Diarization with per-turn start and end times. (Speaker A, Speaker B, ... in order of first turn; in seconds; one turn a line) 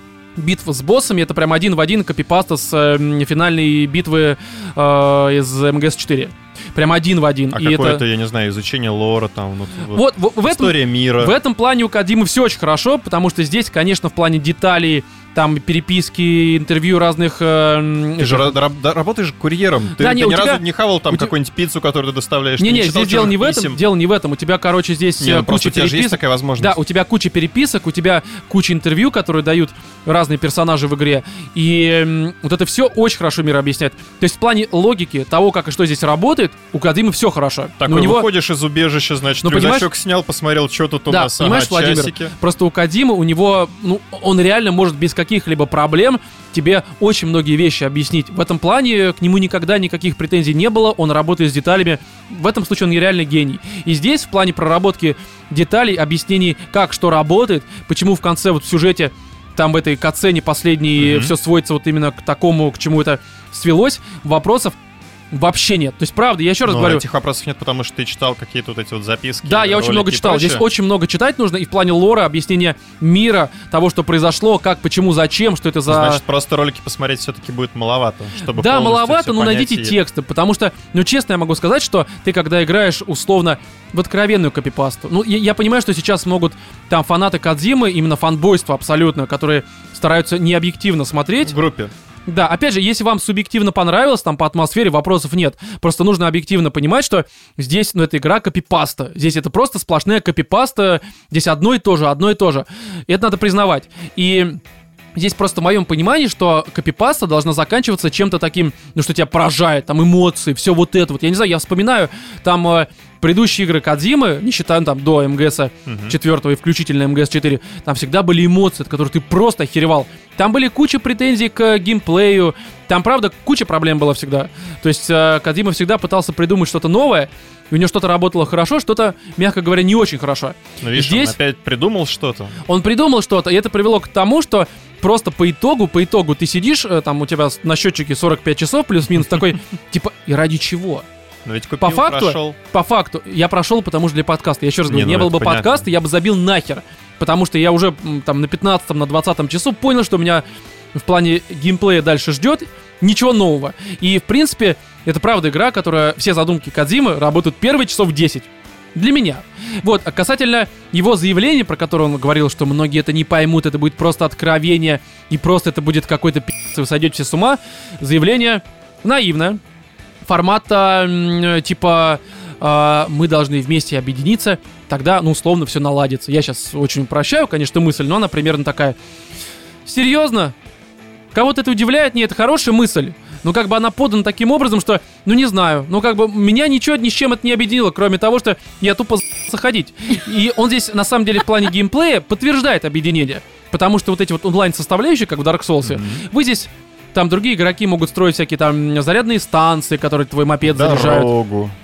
Speaker A: 0.3-8.0
Speaker B: 7.5-11.3
Speaker A: 9.9-18.5
Speaker B: 18.2-23.8
Speaker A: 20.0-21.3
Speaker A: 22.6-38.3
Speaker B: 25.2-26.8
Speaker B: 37.8-42.3
Speaker A: 39.4-39.9
Speaker A: 41.1-64.8
Speaker B: 61.0-61.3
Speaker A: 65.3-67.0
Speaker B: 66.6-70.6
Speaker A: 69.4-76.2
Speaker B: 75.9-80.0
Speaker A: 78.5-91.5
Speaker B: 91.4-91.9
Speaker A: 92.3-104.6
Speaker A: 105.2-131.3
Speaker B: 115.8-116.2
Speaker B: 130.8-132.6
Speaker A: 132.7-141.1
Speaker B: 141.4-142.6
Speaker A: 141.8-169.6
Speaker B: 144.9-145.8
Speaker A: 170.3-179.0
Speaker A: 179.8-180.5
Speaker A: 181.3-201.3
Speaker B: 195.8-196.2
Speaker B: 200.6-201.7